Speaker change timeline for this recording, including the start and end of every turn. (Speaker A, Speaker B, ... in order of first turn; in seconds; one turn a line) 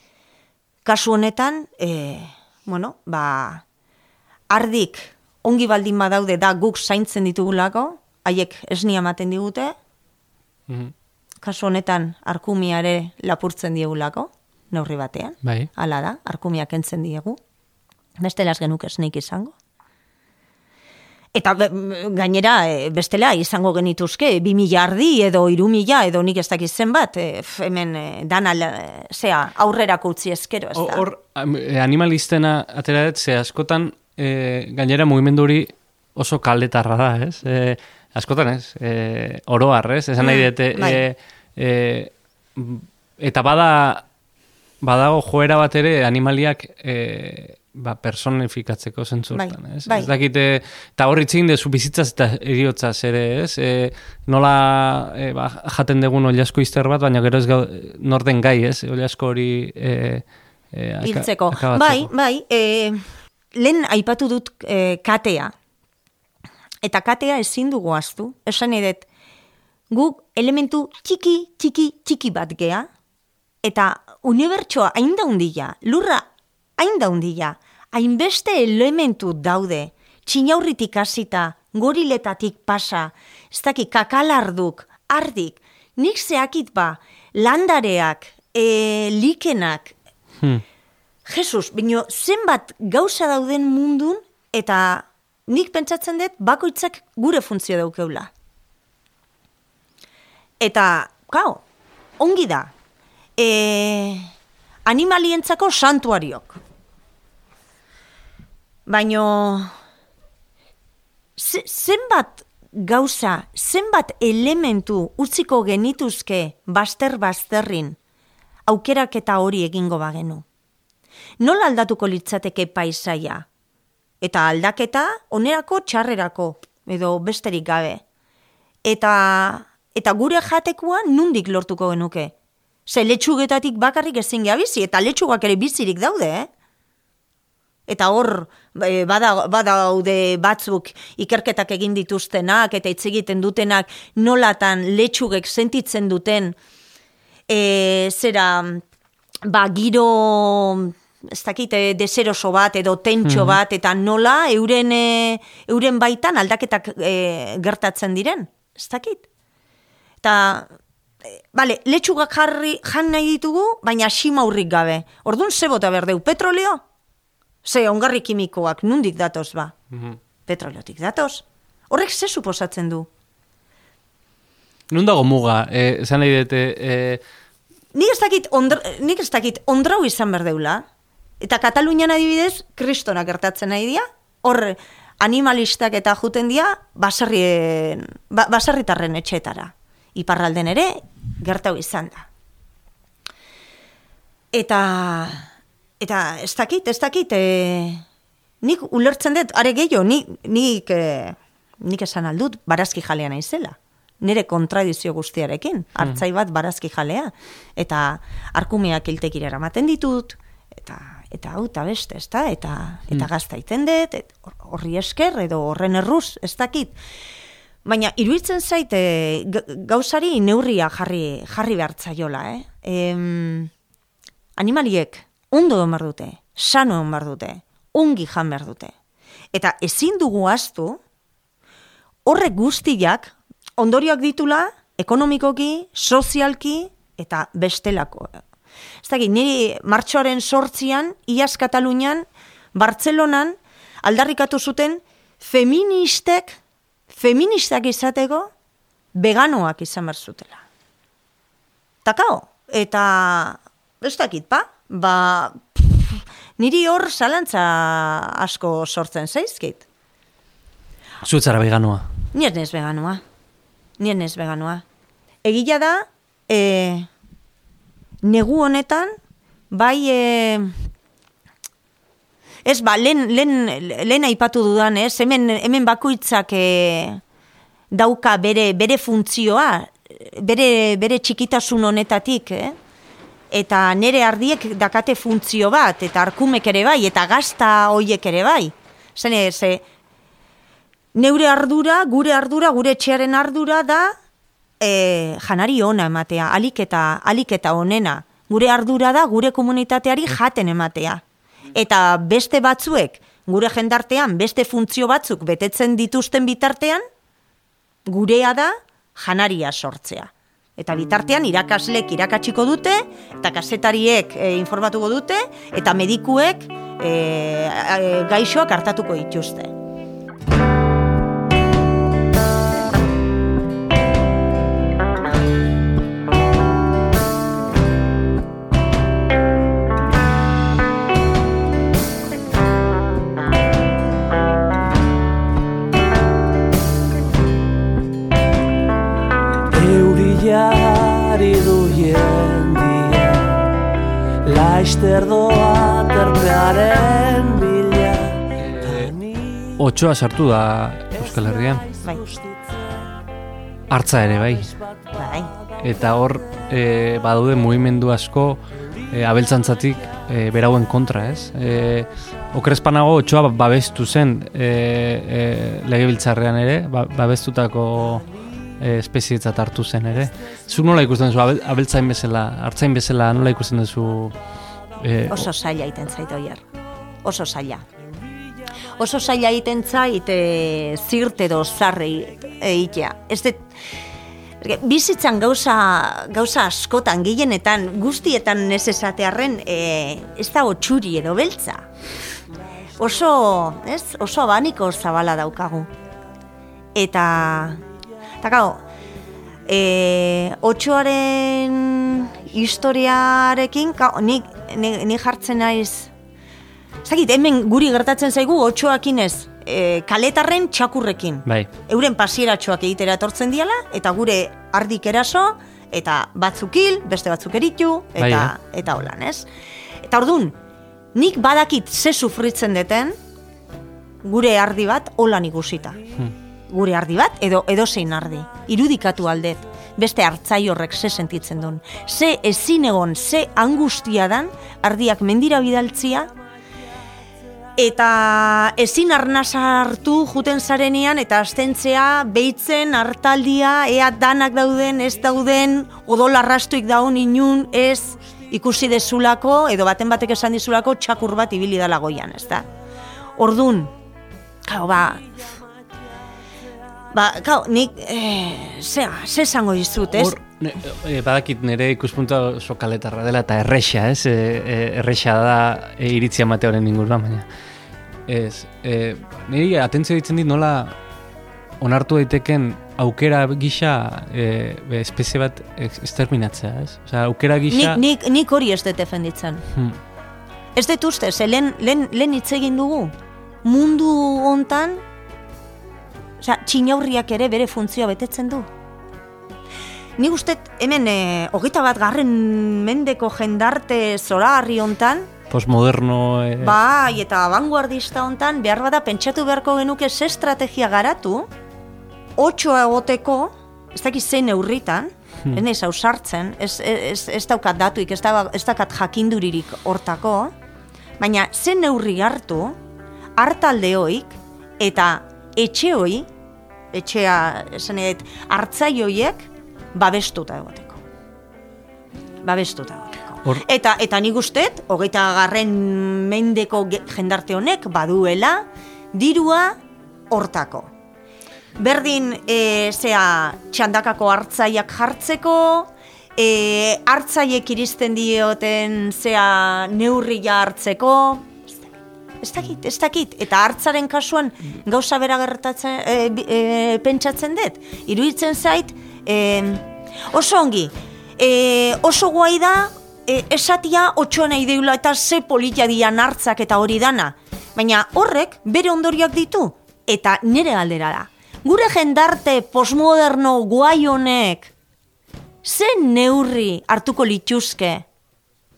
Speaker A: 0.8-3.6
Speaker A: 4.5-9.8
Speaker B: 10.7-10.9
Speaker A: 11.4-17.4
Speaker B: 15.4-15.7
Speaker A: 18.2-19.5
Speaker A: 21.3-31.1
Speaker B: 30.8-44.1
Speaker A: 40.2-41.0
Speaker B: 44.8-62.1
Speaker A: 49.3-50.1
Speaker A: 61.0-65.5
Speaker A: 66.8-69.1
Speaker A: 69.9-72.9
Speaker A: 73.6-76.3
Speaker A: 76.8-90.0
Speaker A: 91.3-98.3
Speaker A: 100.6-101.6
Speaker A: 102.2-102.7
Speaker A: 103.4-104.3
Speaker A: 104.9-106.6
Speaker A: 108.9-109.7
Speaker A: 111.4-118.0
Speaker A: 118.7-120.5
Speaker A: 121.4-123.5
Speaker A: 124.2-128.0
Speaker A: 128.8-132.3
Speaker A: 132.9-136.5
Speaker A: 137.9-146.6
Speaker A: 147.5-148.8
Speaker A: 149.4-159.2
Speaker B: 153.2-153.6
Speaker A: 160.2-160.7
Speaker A: 161.3-166.8
Speaker A: 167.6-169.8
Speaker B: 169.9-170.2
Speaker A: 170.5-173.1
Speaker B: 174.9-177.2
Speaker A: 177.9-180.8
Speaker A: 181.4-192.3
Speaker A: 194.5-195.5
Speaker A: 196.0-198.1
Speaker A: 198.6-217.0
Speaker A: 217.8-223.7
Speaker A: 224.6-228.9
Speaker A: 229.5-231.0
Speaker A: 232.3-238.4
Speaker A: 239.0-248.5
Speaker A: 249.1-250.6
Speaker A: 252.1-259.9
Speaker B: 261.2-262.1
Speaker A: 262.3-263.2
Speaker A: 264.0-264.8
Speaker A: 265.4-267.1
Speaker A: 268.2-269.1
Speaker A: 269.7-270.8
Speaker A: 272.6-277.2
Speaker A: 277.9-282.8
Speaker A: 283.5-289.8
Speaker A: 291.1-294.1
Speaker A: 294.8-307.0
Speaker A: 308.1-319.7
Speaker C: 339.7-343.8
Speaker C: 344.4-349.7
Speaker B: 348.6-349.1
Speaker B: 349.8-351.9
Speaker C: 351.2-352.7
Speaker B: 353.9-354.7
Speaker A: 355.1-355.5
Speaker B: 355.8-368.3
Speaker B: 368.8-374.4
Speaker B: 375.0-375.5
Speaker A: 375.3-376.6
Speaker A: 377.2-377.9
Speaker A: 379.0-383.7
Speaker A: 384.6-391.9
Speaker A: 393.0-395.9
Speaker A: 396.9-397.8
Speaker A: 398.4-398.8
Speaker A: 399.7-406.1
Speaker A: 407.0-419.5
Speaker B: 418.2-418.5
Speaker A: 420.1-420.6
Speaker A: 421.1-423.2
Speaker A: 424.2-426.0
Speaker A: 426.7-436.3
Speaker A: 437.8-452.7
Speaker A: 453.4-453.9
Speaker A: 454.6-455.4
Speaker A: 457.1-460.4
Speaker B: 460.1-467.5
Speaker B: 468.3-470.9
Speaker B: 471.8-478.0
Speaker A: 477.7-479.6
Speaker B: 479.7-480.0
Speaker A: 480.8-483.1
Speaker A: 483.6-485.0
Speaker A: 486.4-488.7
Speaker A: 490.2-495.3
Speaker B: 495.5-496.8
Speaker A: 496.6-501.5
Speaker A: 502.4-510.5
Speaker A: 511.2-512.8
Speaker A: 513.4-516.3
Speaker A: 516.9-521.0
Speaker A: 522.4-529.8
Speaker A: 530.3-530.9
Speaker A: 531.8-564.7
Speaker A: 565.6-568.1